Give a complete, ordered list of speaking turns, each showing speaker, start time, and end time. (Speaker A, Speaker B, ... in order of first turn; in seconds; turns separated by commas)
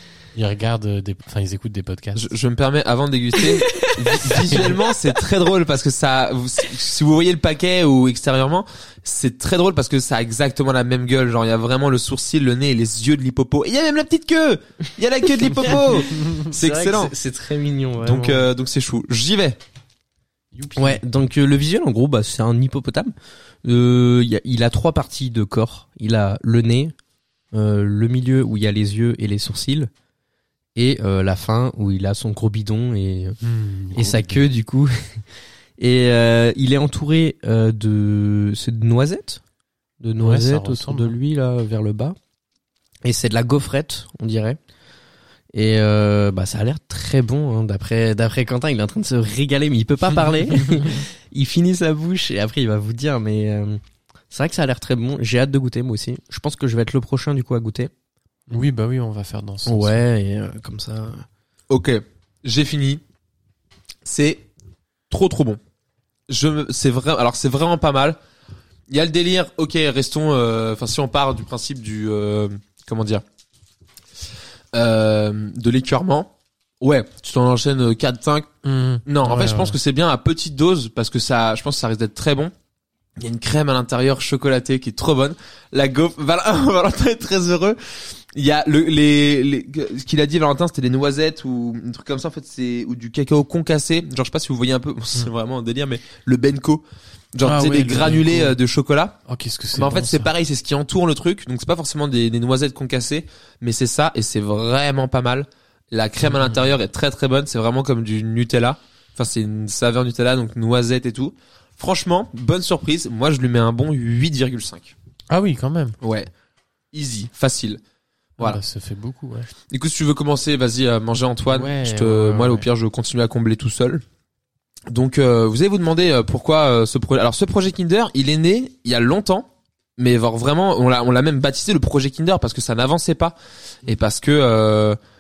Speaker A: 0.3-2.3, Speaker B: 2.1-17.1, Speaker C: 3.7-4.9, Speaker A: 4.5-4.7, Speaker C: 15.6-18.5, Speaker B: 18.0-19.6, Speaker A: 20.5-21.0, Speaker C: 20.8-26.9, Speaker C: 27.5-29.9, Speaker C: 30.8-33.4, Speaker A: 33.4-34.5, Speaker C: 33.9-35.2, Speaker C: 35.8-39.4, Speaker C: 40.0-42.1, Speaker A: 40.2-41.1, Speaker C: 43.0-44.6, Speaker C: 45.5-57.9, Speaker A: 58.5-60.0, Speaker C: 59.6-61.2, Speaker B: 61.7-63.0, Speaker B: 64.0-64.5, Speaker B: 65.1-65.6, Speaker B: 66.3-68.2, Speaker B: 68.9-73.2, Speaker B: 74.7-78.5, Speaker A: 78.6-79.8, Speaker B: 79.0-82.5, Speaker B: 83.2-96.8, Speaker B: 97.3-99.2, Speaker A: 97.4-98.6, Speaker A: 99.3-100.3, Speaker B: 99.7-114.9, Speaker A: 106.2-106.6, Speaker A: 115.3-116.0, Speaker B: 116.0-116.3, Speaker B: 116.9-117.8, Speaker A: 118.4-119.5, Speaker B: 119.7-124.0, Speaker A: 121.5-122.7, Speaker B: 124.9-135.0